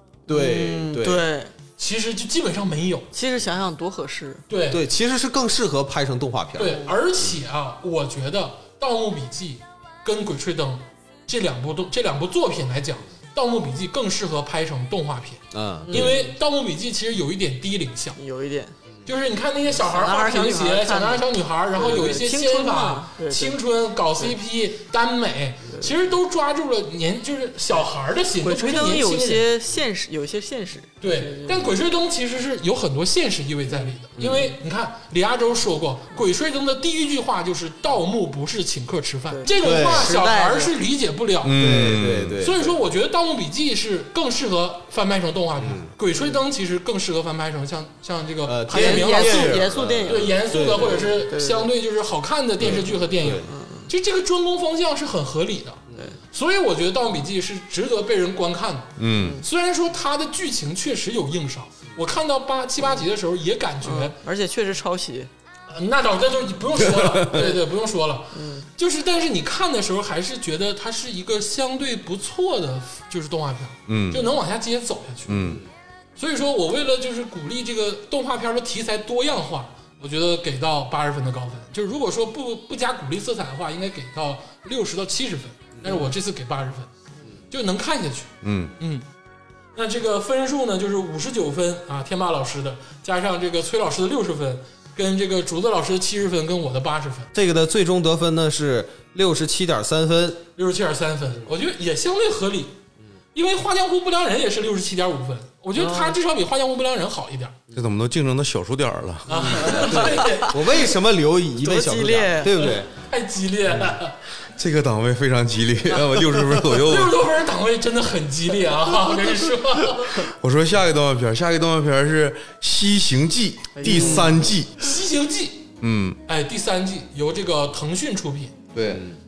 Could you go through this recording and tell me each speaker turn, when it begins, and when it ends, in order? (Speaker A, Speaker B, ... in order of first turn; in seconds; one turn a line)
Speaker A: 0.3-1.2
Speaker B: 0.3-1.5
Speaker C: 1.8-3.1
Speaker B: 3.1-4.4
Speaker C: 4.5-4.8
Speaker A: 4.7-7.4
Speaker C: 6.6-18.2
Speaker B: 6.6-6.9
Speaker A: 15.5-16.2
Speaker B: 15.8-16.1
Speaker B: 18.2-18.7
Speaker C: 19.1-29.4
Speaker B: 19.8-23.6
Speaker B: 28.4-31.7
Speaker C: 31.0-64.2
Speaker A: 34.2-34.5
Speaker B: 39.3-40.7
Speaker A: 39.6-40.2
Speaker D: 41.4-42.4
Speaker A: 41.6-42.7
Speaker A: 45.6-45.9
Speaker A: 48.4-51.2
Speaker B: 48.7-51.7
Speaker A: 52.6-53.5
Speaker B: 53.5-53.9
Speaker A: 55.9-56.1
Speaker D: 59.0-59.4
Speaker B: 59.1-59.4
Speaker B: 63.8-65.3
Speaker C: 65.7-75.5
Speaker B: 68.3-68.7
Speaker D: 73.9-74.3
Speaker D: 75.3-75.6
Speaker A: 75.3-75.7
Speaker C: 76.2-86.9
Speaker A: 85.7-86.1
Speaker C: 87.5-89.0
Speaker D: 88.4-88.7
Speaker C: 89.7-97.3
Speaker A: 97.3-100.4
Speaker C: 100.6-102.8
Speaker C: 103.3-107.5
Speaker A: 105.8-106.2
Speaker D: 107.7-109.6
Speaker C: 109.3-110.9
Speaker A: 109.3-112.9
Speaker B: 109.7-110.5
Speaker B: 111.6-112.7
Speaker C: 112.5-114.2
Speaker D: 114.6-117.2
Speaker C: 116.7-120.3
Speaker D: 120.1-124.7
Speaker B: 123.7-124.3
Speaker A: 123.8-124.4
Speaker C: 124.8-125.7
Speaker D: 125.8-126.2
Speaker C: 126.3-128.5
Speaker D: 128.7-129.0
Speaker A: 128.9-129.2